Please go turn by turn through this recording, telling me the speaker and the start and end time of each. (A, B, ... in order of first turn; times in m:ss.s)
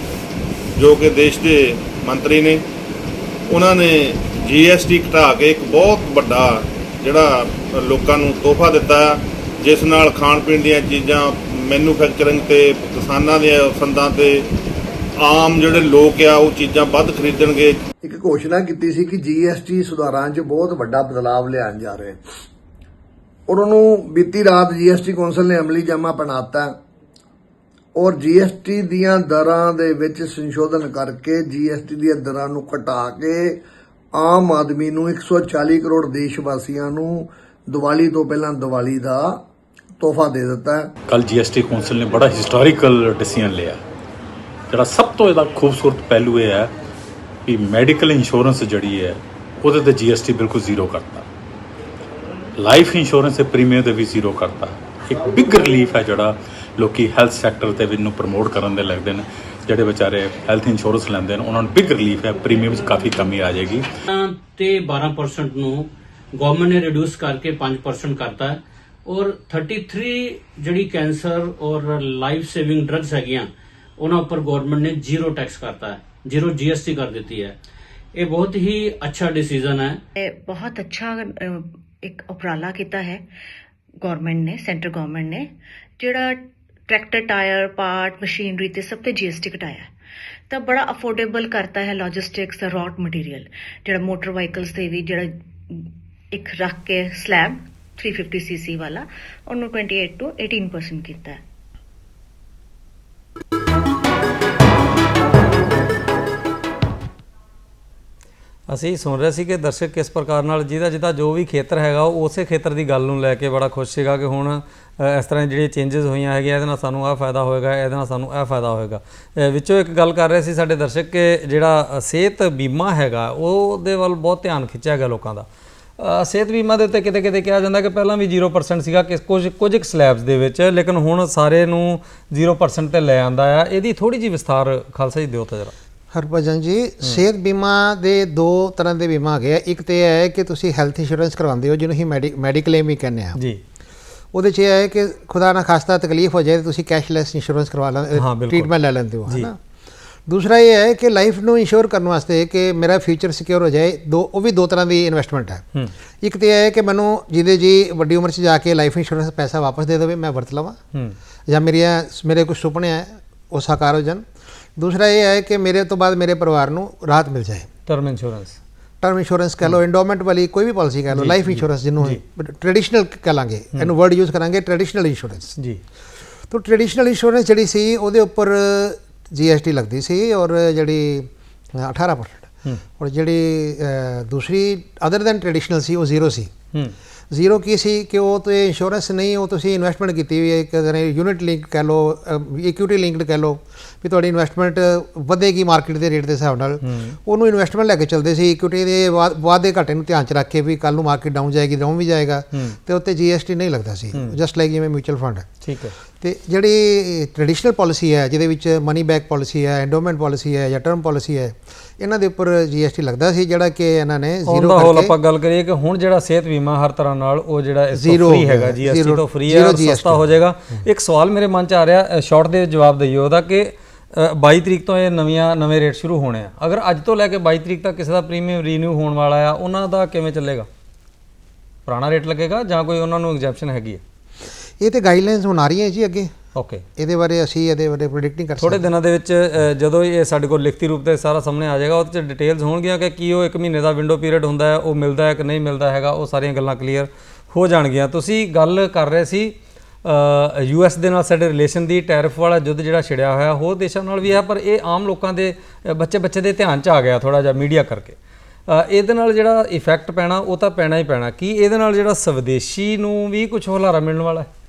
0:00.8-0:02.6 A
0:03.5-0:14.5 A
0:15.2-0:17.8 A
0:18.0-0:22.2 B
0:23.5-0:26.7 B
0:28.0-0:33.6 B
0:34.2-0:39.4 B
0:40.0-0:40.9 B
0:41.1-0:43.8 C
0:44.7-0:46.7 C
0:47.4-0:51.3 C
0:52.6-1:03.9 C
1:04.1-1:17.6 D
1:18.2-1:20.0 D
1:20.2-1:23.2 E
1:24.0-1:29.9 E
1:30.5-1:41.4 E
1:48.7-2:05.5 F
2:06.0-2:15.7 F
2:16.1-2:23.4 G
2:24.3-2:29.6 G
2:28.2-2:28.7 F
2:30.3-2:35.6 G
2:36.2-2:40.8 G
2:41.5-2:44.2 G
2:44.8-2:47.7 G
2:47.9-2:48.6 F
2:49.0-2:55.5 G
2:51.1-2:52.2 F
2:56.5-3:06.5 G
3:07.3-3:25.5 G
3:16.8-3:17.2 F
3:22.5-3:22.8 F
3:25.6-3:25.9 F
3:26.2-3:35.1 G
3:34.5-3:50.7 F
3:37.9-3:40.3 G
3:51.8-3:54.0 F
3:54.8-3:56.3 G
3:56.5-3:56.8 F
3:57.0-3:58.8 G
3:58.6-4:18.2 F
4:18.7-4:24.5 F